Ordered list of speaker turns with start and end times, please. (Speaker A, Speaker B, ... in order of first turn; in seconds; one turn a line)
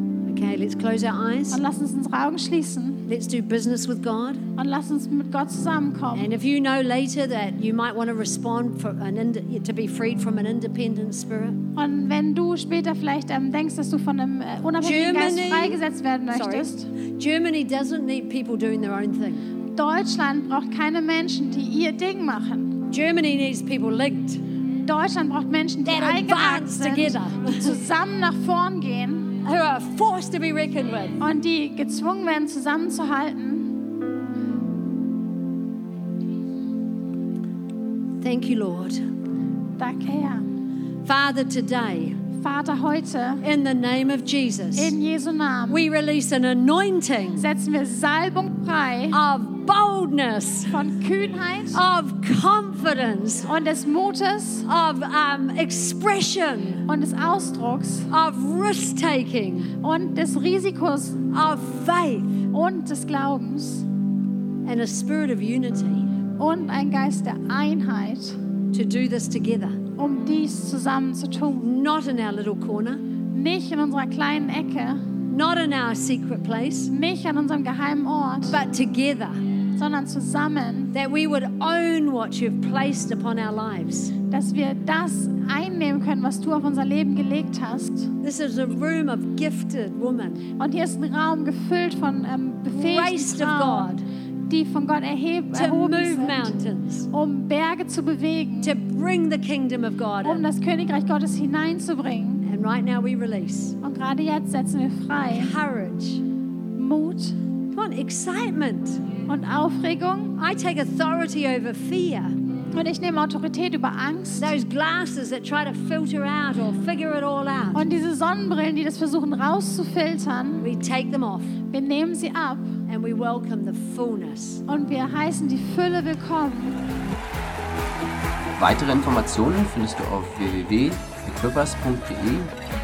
Speaker A: 0.2-1.6
Speaker B: 1.5-3.0
Speaker A: 3.1-4.5
Speaker B: 4.6-6.3
Speaker A: 6.1-11.6
Speaker B: 11.8-16.9
Speaker A: 14.8-19.5
Speaker B: 19.8-22.8
Speaker A: 22.9-24.4
Speaker B: 24.8-29.4
Speaker A: 25.9-27.8
Speaker A: 29.4-31.2
Speaker B: 31.2-33.8
Speaker A: 38.2-39.0
Speaker B: 39.8-40.5
Speaker A: 41.0-42.2
Speaker B: 42.4-43.4
Speaker A: 43.4-45.0
Speaker B: 44.8-45.8
Speaker A: 45.7-47.5
Speaker B: 47.4-49.2
Speaker A: 49.1-50.8
Speaker B: 50.7-51.8
Speaker A: 51.7-53.5
Speaker B: 53.5-54.7
Speaker A: 54.6-56.9
Speaker B: 56.9-58.1
Speaker A: 58.1-59.7
Speaker B: 59.8-61.3
Speaker A: 61.3-62.5
Speaker B: 62.5-63.9
Speaker A: 64.6-66.1
Speaker B: 66.4-68.4
Speaker A: 68.7-69.8
Speaker B: 70.0-71.7
Speaker A: 71.6-73.0
Speaker B: 73.3-75.1
Speaker A: 75.3-76.9
Speaker B: 76.9-78.6
Speaker A: 78.5-79.4
Speaker B: 79.8-80.9
Speaker A: 80.9-84.1
Speaker B: 84.3-88.1
Speaker A: 88.2-90.4
Speaker B: 90.6-93.9
Speaker A: 92.7-94.0
Speaker B: 94.5-96.5
Speaker A: 95.5-97.1
Speaker B: 97.1-98.8
Speaker A: 98.6-100.5
Speaker B: 100.2-102.5
Speaker A: 102.5-103.8
Speaker B: 103.8-105.5
Speaker A: 105.2-106.2
Speaker B: 106.8-107.4
Speaker A: 107.7-109.0
Speaker B: 109.3-110.4
Speaker A: 110.4-112.4
Speaker B: 112.7-114.6
Speaker A: 114.4-117.8
Speaker B: 117.7-120.7
Speaker A: 120.6-121.5
Speaker B: 121.7-122.8
Speaker A: 122.9-124.6
Speaker B: 124.7-126.8
Speaker C: 128.6-132.5